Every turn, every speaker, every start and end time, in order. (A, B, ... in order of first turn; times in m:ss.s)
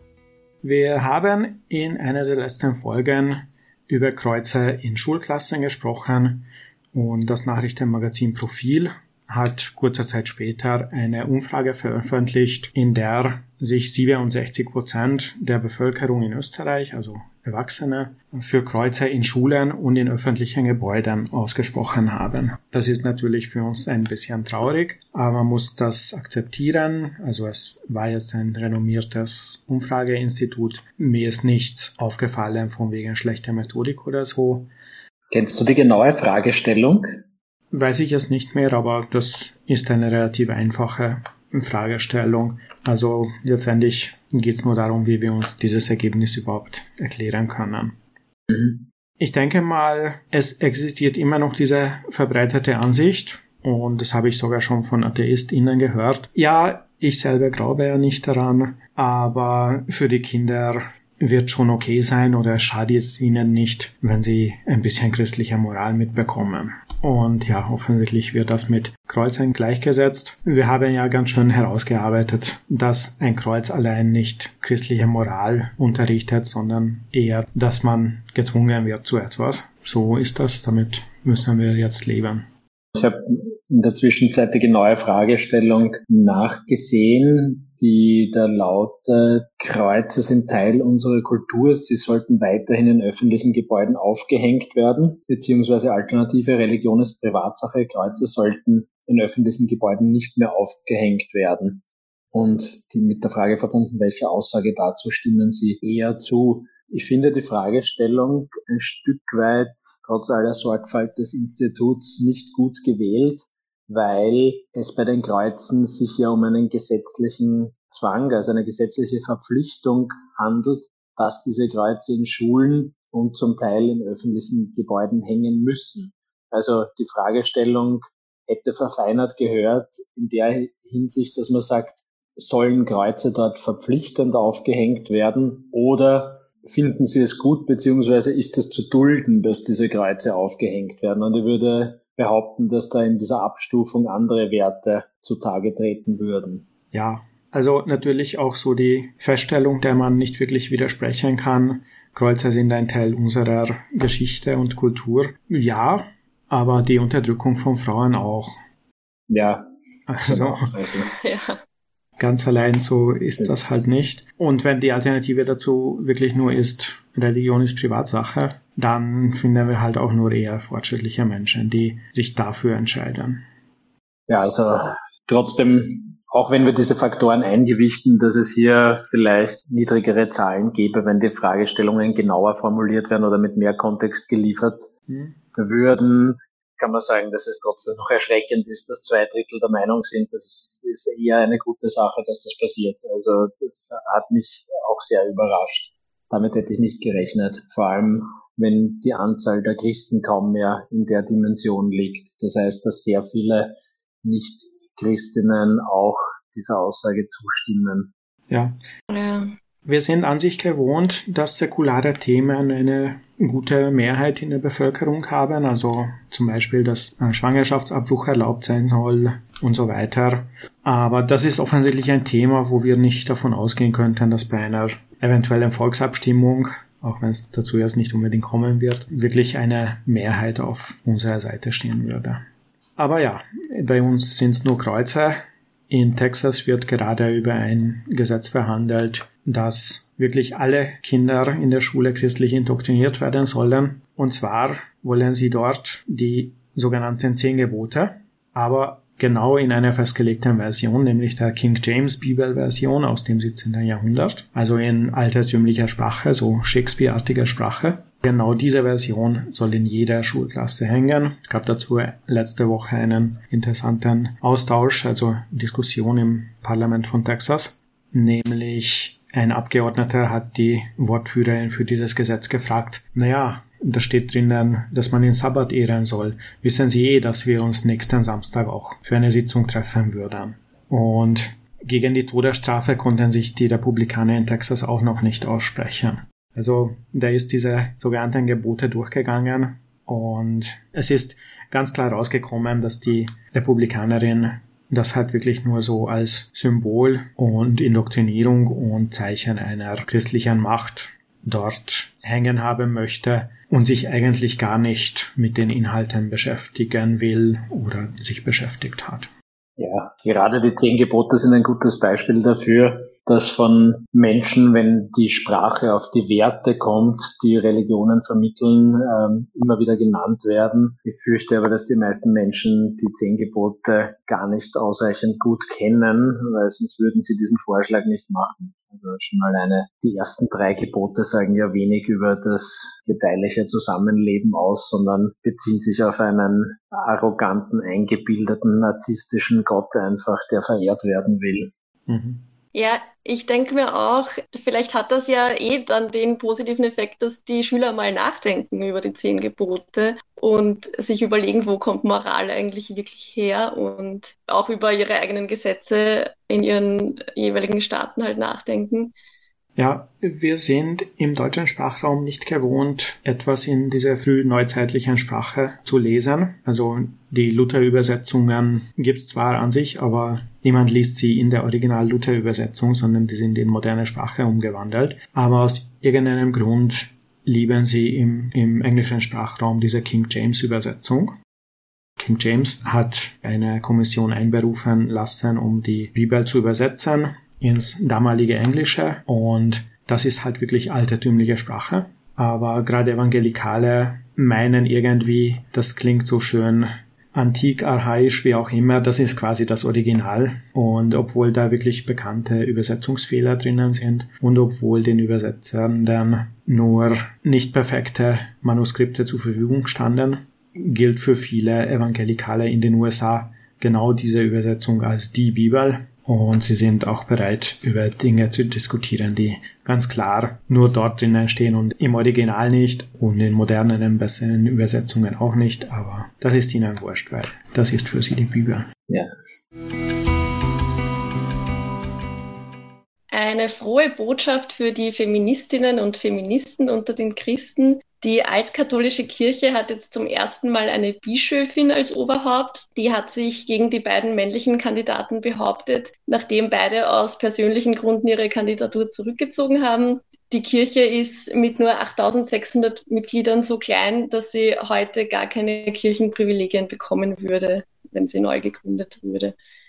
0:00.6-0:34.7 A
0:35.3-0:37.2 B
0:37.7-0:48.0 A
0:48.5-0:48.8 B
0:49.2-1:22.5 A
1:22.9-2:26.7 B
2:26.9-2:38.6 A
2:39.3-2:39.7 B
2:40.1-2:40.7 A
2:40.2-2:41.1 B
2:41.1-2:41.6 C
2:42.2-2:53.4 A
2:43.4-2:43.8 B
2:54.3-3:04.9 B
3:05.1-3:05.4 A
3:05.5-3:28.1 B
3:28.5-3:28.8 A
3:29.1-3:29.5 C
3:29.8-3:52.4 A
3:53.0-5:09.3 A
5:09.8-5:41.7 B
5:42.1-5:42.4 A
5:42.7-5:59.1 C
5:59.8-6:21.4 A
6:22.2-7:08.9 A
7:13.3-7:39.5 C